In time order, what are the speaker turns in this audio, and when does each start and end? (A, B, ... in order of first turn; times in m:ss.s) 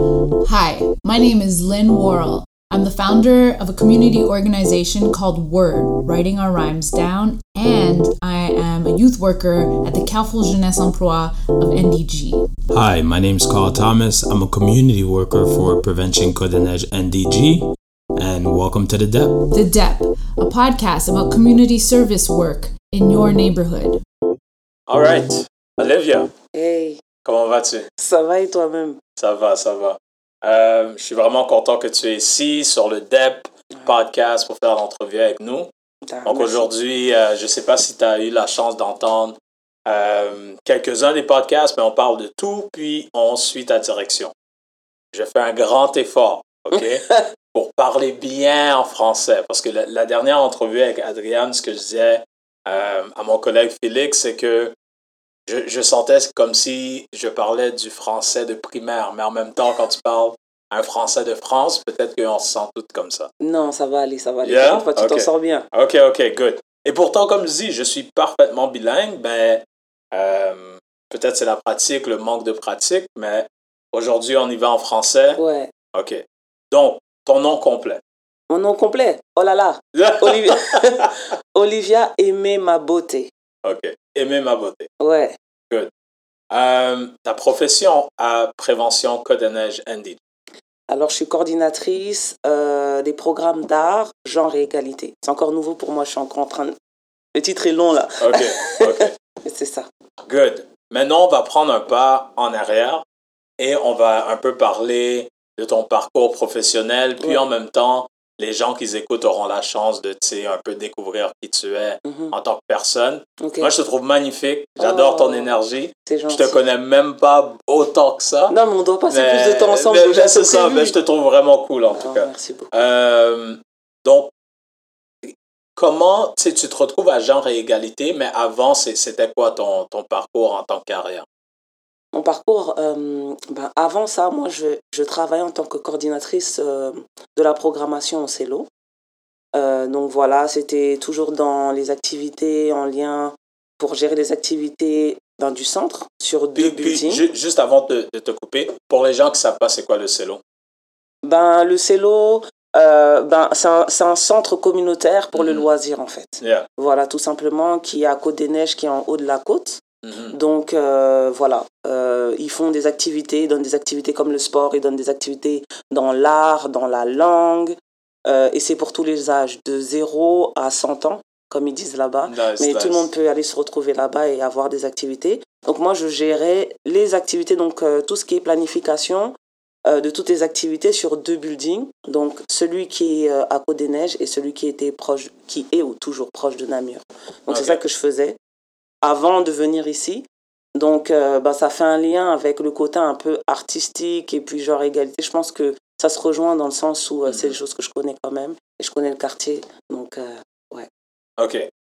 0:00.4-0:12.5 A
0:12.7-0:19.5 B
0:19.5-0:24.0 A
0:24.9-0:26.3 B
0:26.5-0:27.0 C
0:27.2-0:27.9 B
0:28.0-0:29.0 C
0:29.2-0:35.7 B
0:36.0-0:36.7 C
0:36.2-0:44.3 B
0:45.1-0:54.7 B
0:55.5-1:03.3 B
1:03.4-1:05.7 C
1:04.4-1:15.4 B
1:15.4-1:15.7 C
1:15.9-1:18.0 B
1:18.5-1:23.3 C
1:20.0-1:21.1 B
1:23.6-1:24.9 B
1:25.0-1:25.4 C
1:26.5-1:30.2 B
1:30.9-1:36.8 C
1:37.3-1:39.9 C
1:38.2-1:39.1 B
1:40.2-1:43.0 B
1:43.6-1:58.6 B
1:52.0-1:52.3 C
1:53.4-1:53.7 C
1:54.8-1:55.5 C
1:56.1-1:56.6 C
1:58.5-2:01.0 C
1:59.1-2:04.3 B
2:01.9-2:02.7 C
2:05.2-2:11.2 B
2:12.1-2:18.7 C
2:19.5-2:27.2 C
2:26.6-2:30.4 B
2:31.2-2:59.3 C
2:35.4-2:35.7 B
2:36.4-2:36.7 B
2:40.0-2:40.4 B
2:52.3-2:53.1 B
2:59.9-3:08.4 C
3:07.5-3:07.8 B
3:09.0-3:20.9 C
3:17.3-3:17.6 B
3:21.4-3:21.7 B